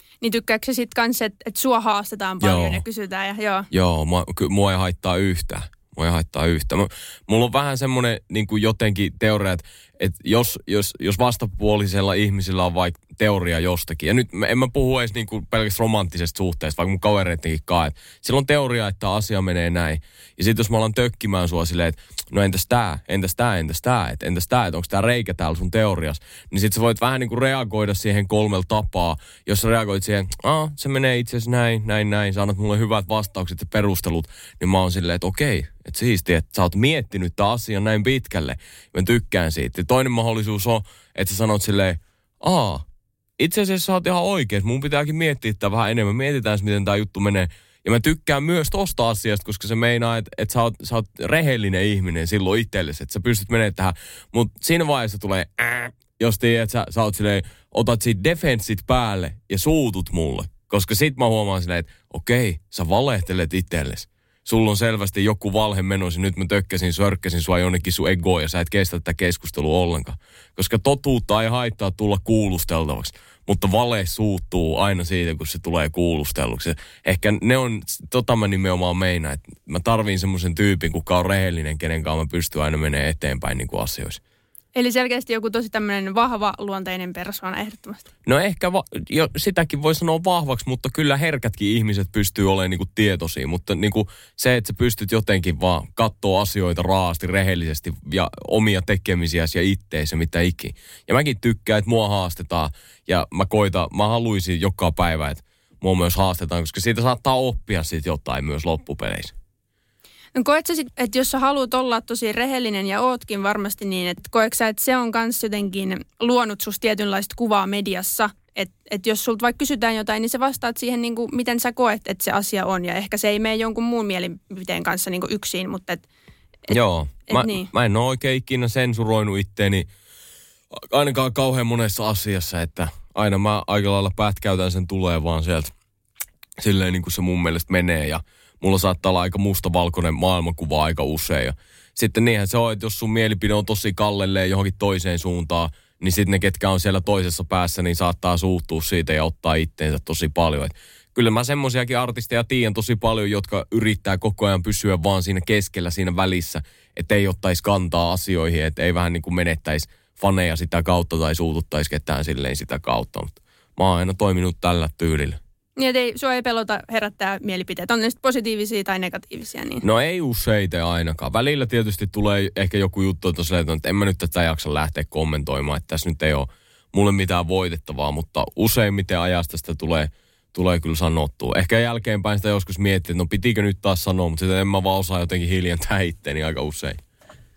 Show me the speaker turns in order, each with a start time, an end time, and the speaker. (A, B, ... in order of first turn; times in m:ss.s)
0:00.2-0:03.7 A
0:02.4-0:02.8 B
0:03.7-0:42.8 B
0:43.4-1:24.2 B
1:24.8-1:28.0 A
1:28.2-1:49.3 B
1:50.3-2:06.0 A
2:06.7-2:09.9 B
2:07.3-2:07.7 A
2:10.7-2:15.7 B
2:16.6-2:45.4 B
2:45.8-2:49.8 A
2:49.8-3:07.0 B